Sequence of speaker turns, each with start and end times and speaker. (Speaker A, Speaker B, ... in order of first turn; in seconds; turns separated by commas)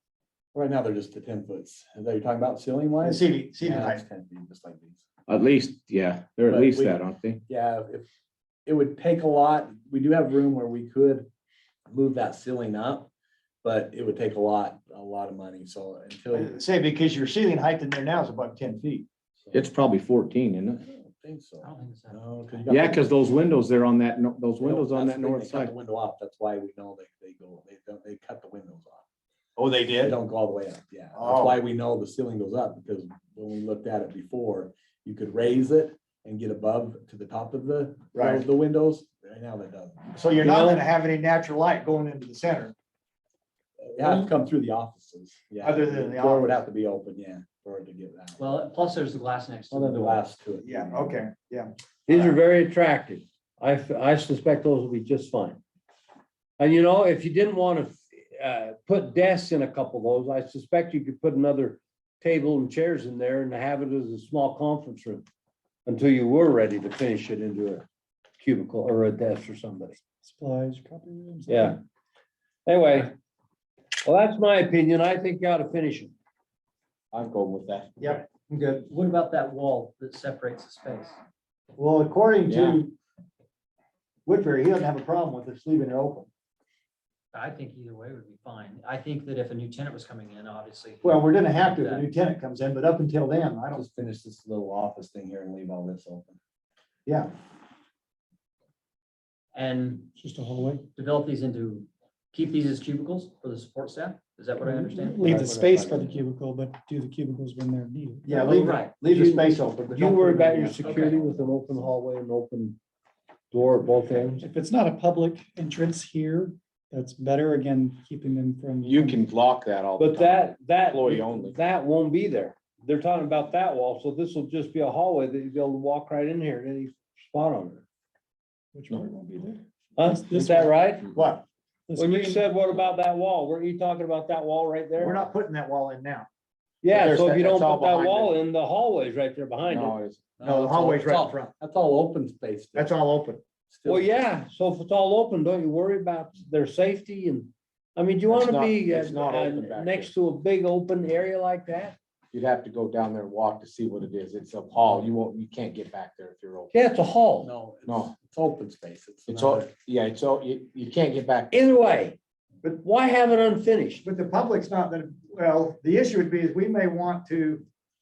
Speaker A: 0.5-5.0, Speaker B: 3.0-4.0, Speaker C: 5.3-7.4, Speaker A: 6.4-8.1, Speaker A: 8.7-11.3, Speaker A: 11.9-13.1, Speaker A: 13.6-16.5, Speaker B: 16.3-19.1, Speaker A: 19.4-19.6, Speaker C: 19.5-20.8, Speaker A: 20.8-23.0, Speaker D: 21.6-23.1, Speaker C: 22.7-25.7, Speaker A: 24.6-29.0, Speaker B: 29.6-30.2, Speaker A: 29.9-40.0, Speaker B: 31.1-31.6, Speaker B: 38.1-38.4, Speaker B: 40.1-42.7, Speaker E: 40.4-40.8, Speaker A: 43.8-48.5, Speaker B: 45.6-46.6, Speaker D: 48.4-50.2, Speaker A: 49.7-51.2, Speaker B: 50.6-52.4, Speaker E: 52.1-55.6, Speaker E: 56.6-65.2, Speaker E: 65.8-67.8, Speaker E: 68.4-70.0, Speaker F: 70.2-71.8, Speaker E: 71.5-71.8, Speaker E: 72.7-73.1, Speaker E: 74.0-76.1, Speaker C: 77.1-78.0, Speaker B: 78.0-78.9, Speaker D: 78.9-81.2, Speaker B: 81.8-82.9, Speaker C: 82.5-82.8, Speaker B: 84.2-86.3, Speaker D: 87.3-92.1, Speaker B: 91.0-93.8, Speaker A: 93.7-96.4, Speaker B: 97.0-97.3, Speaker D: 99.5-100.1, Speaker F: 100.2-100.8, Speaker D: 100.9-106.2, Speaker F: 104.6-108.5, Speaker B: 108.2-111.2, Speaker E: 108.5-112.8, Speaker D: 108.5-109.3, Speaker D: 109.9-111.2, Speaker E: 113.5-114.4, Speaker F: 114.4-119.2, Speaker C: 118.8-121.6, Speaker E: 120.0-127.8, Speaker F: 128.7-130.7, Speaker E: 129.9-131.0, Speaker B: 131.1-131.4, Speaker F: 131.9-132.4, Speaker E: 131.9-135.2, Speaker B: 135.0-136.3, Speaker E: 136.8-139.9, Speaker C: 136.9-138.3, Speaker C: 139.7-140.2, Speaker A: 140.4-143.0, Speaker B: 140.4-141.5, Speaker B: 142.7-143.4, Speaker A: 143.7-144.1, Speaker E: 143.8-152.0, Speaker C: 148.3-150.1, Speaker C: 152.3-156.7, Speaker E: 156.7-157.5, Speaker A: 157.4-159.7, Speaker C: 157.8-158.1, Speaker C: 159.3-161.6, Speaker E: 161.5-162.2, Speaker E: 162.8-164.0, Speaker B: 164.0-167.7